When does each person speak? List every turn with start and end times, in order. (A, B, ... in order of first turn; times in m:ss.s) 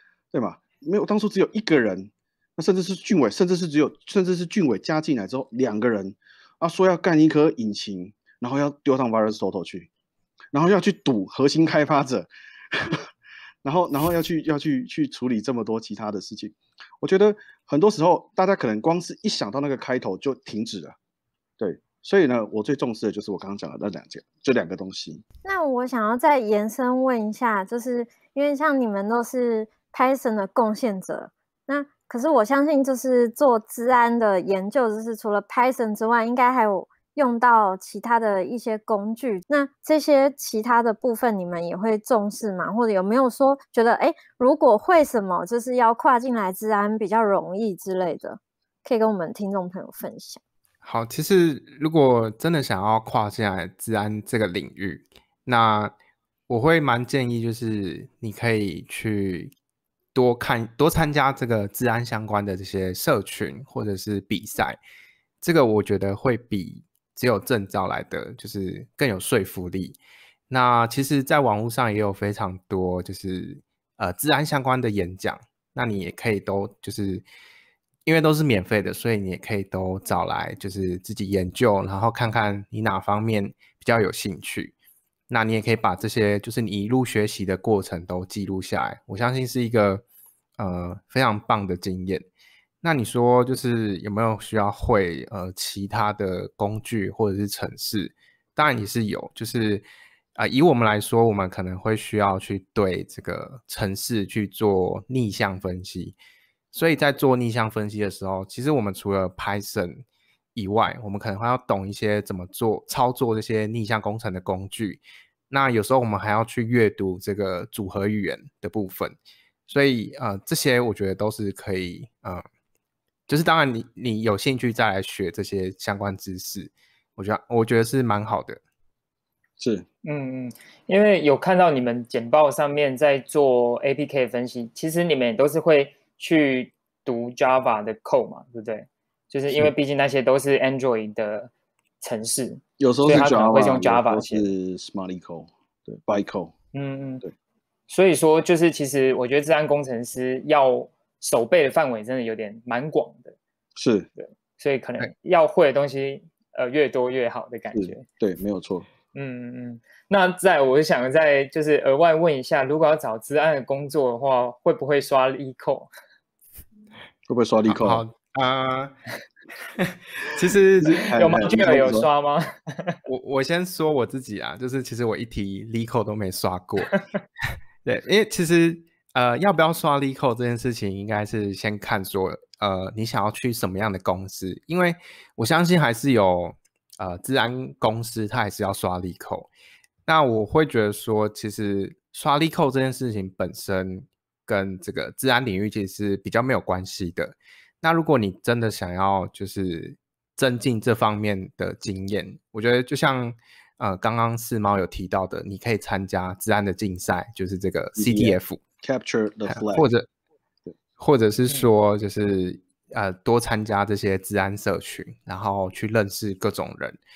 0:00.3-0:09.9 A
0:10.5-0:13.1 A
0:13.6-0:21.0 A
0:21.6-0:25.2 A
0:25.4-0:50.4 B
0:50.8-0:55.9 C
0:56.5-0:59.5 C
1:00.1-1:04.8 C
1:05.4-1:10.0 C
1:10.5-1:17.2 C
1:18.0-1:24.7 C
1:25.3-1:30.0 C
1:30.6-1:32.2 C
1:32.8-1:39.8 C
1:40.4-1:46.2 C
1:46.7-1:50.0 C
1:50.5-1:59.2 C
1:59.7-2:02.4 C
2:03.3-2:08.6 C
2:09.6-2:09.8 A
2:10.0-2:24.5 D
2:22.8-2:26.5 A
2:26.7-2:27.2 D
2:27.9-2:33.4 D
2:33.8-2:34.1 A
2:34.2-2:38.0 D
2:37.7-2:38.9 A
2:39.1-2:45.9 D
2:47.3-2:48.0 A
2:47.7-2:49.0 C
2:49.8-2:51.4 C
2:50.8-2:52.1 A
2:51.1-2:53.0 D
2:53.0-2:57.0 C
2:57.8-3:09.5 C
3:10.0-3:28.6 C
3:28.0-3:29.9 A
3:29.5-3:30.1 C
3:31.0-3:37.0 C